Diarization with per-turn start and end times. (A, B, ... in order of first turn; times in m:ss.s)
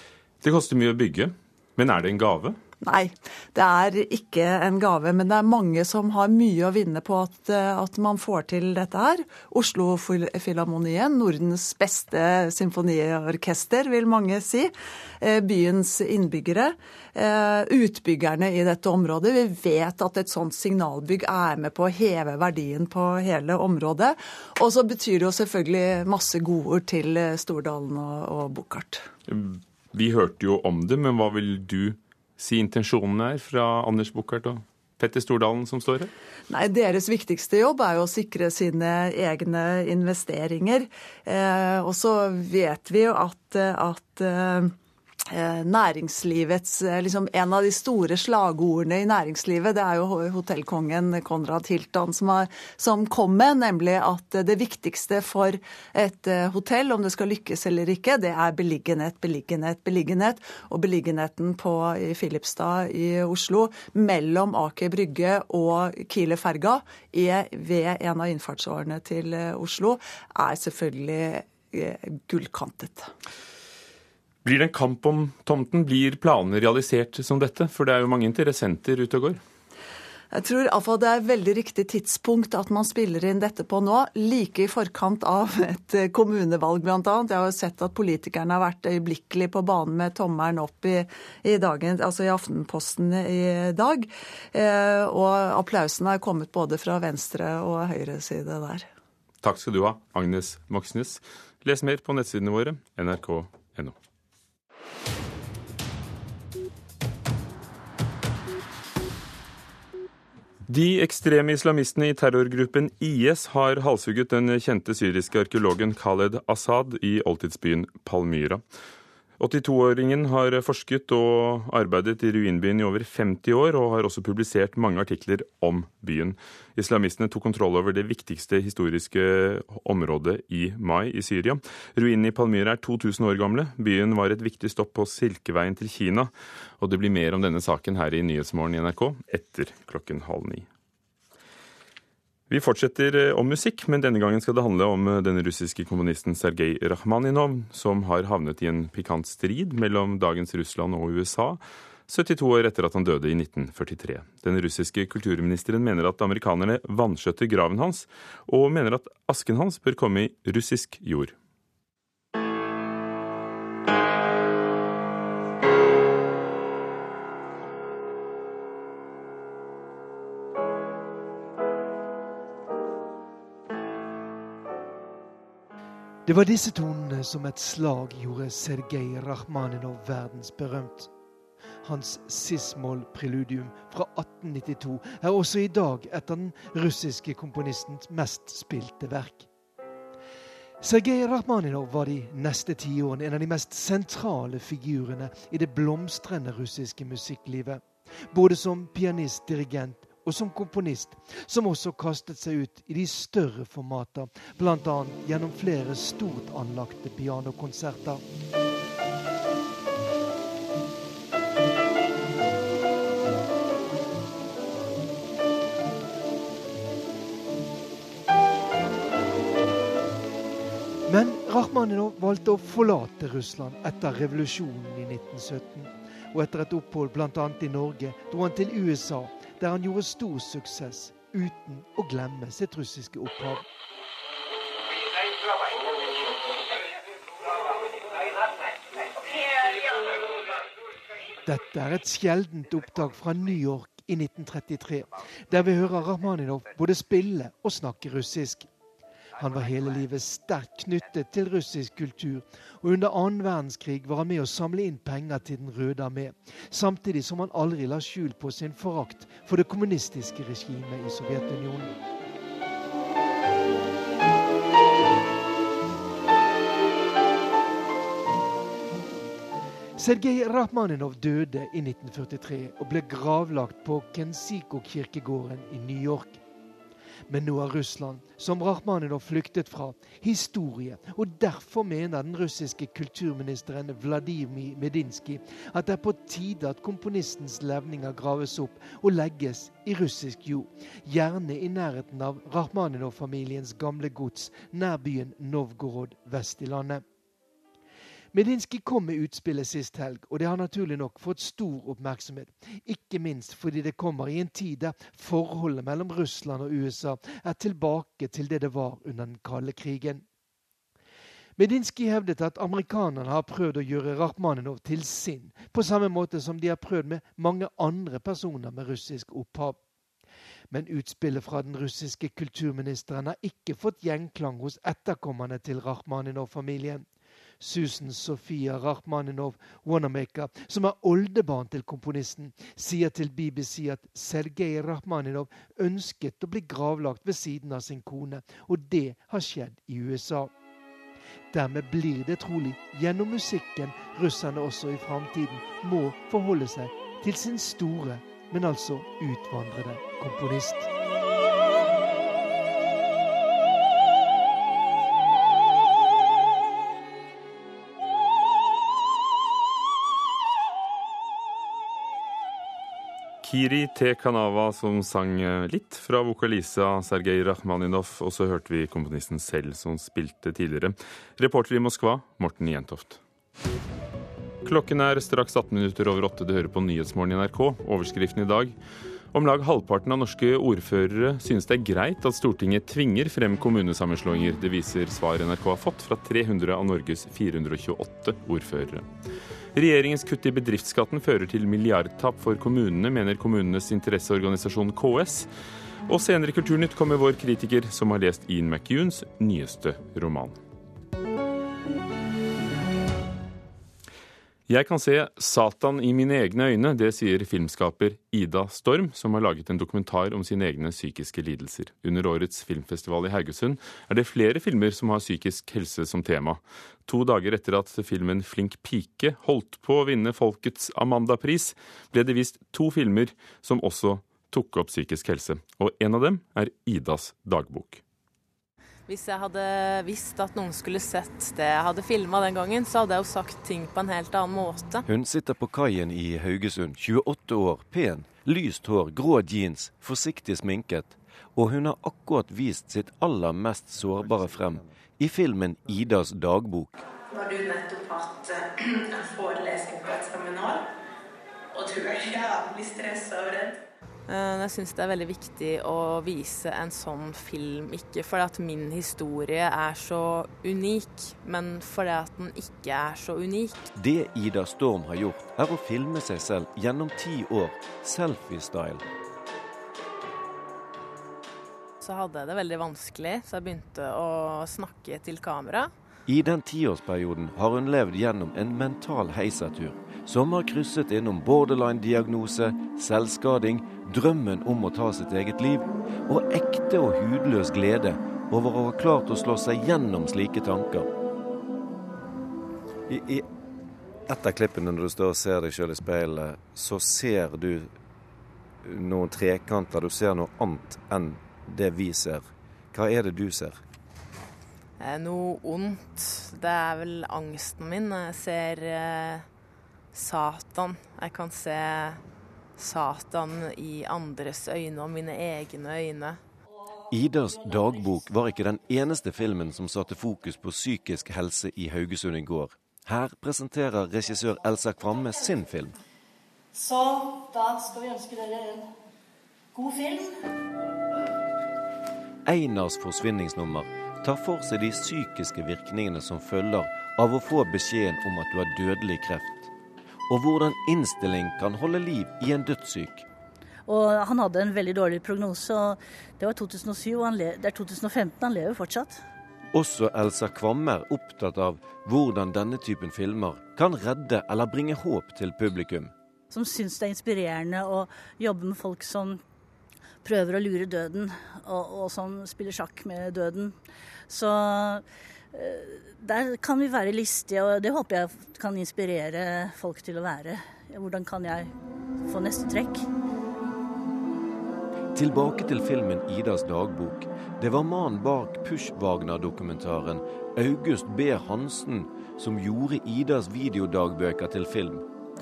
0:00.4-0:02.6 A
0:02.8-0:29.1 B
0:29.3-0:36.1 A
0:36.5-0:44.8 B
0:45.3-1:13.1 B
1:14.4-1:19.4 A
1:20.3-1:38.9 B
1:39.4-1:44.0 A
1:50.7-1:58.6 A
1:59.4-2:20.7 A
2:22.5-2:41.3 A
2:56.3-3:01.1 C
3:01.8-3:09.5 C
3:10.8-3:28.2 C
3:41.1-3:53.6 C
4:01.4-4:08.7 C
4:09.4-4:21.9 C
4:30.0-4:36.4 C
4:37.3-4:57.0 C
4:58.3-5:10.2 C
5:11.6-5:19.8 C
5:20.7-5:27.1 C
5:27.6-5:40.5 C
5:41.5-5:50.9 C
6:03.4-6:13.2 A
6:14.6-6:18.8 A
6:19.3-6:29.1 A
6:29.7-6:35.5 A
6:36.1-6:40.6 A
6:44.7-7:08.0 A
7:09.1-7:15.0 D
7:15.1-7:27.0 E
7:27.3-7:30.9 F
7:31.7-7:33.8 F
7:34.3-7:43.8 D
7:43.9-7:49.0 E
7:52.0-7:55.9 D
7:56.3-8:11.1 E
8:13.1-8:13.5 E
8:14.3-8:17.9 E
8:18.8-8:23.8 E
8:25.0-8:29.5 D
8:30.1-8:32.2 D
8:32.8-8:36.4 D
8:37.1-8:46.0 E
8:46.7-8:48.9 G
8:49.7-8:50.4 G
8:52.4-8:59.7 E
9:00.3-9:03.3 E
9:03.9-9:09.2 G
9:09.7-9:16.1 E
9:16.5-9:19.4 G
9:20.2-9:23.8 G
9:24.3-9:31.7 G
9:32.2-9:33.1 G
9:35.1-9:45.0 E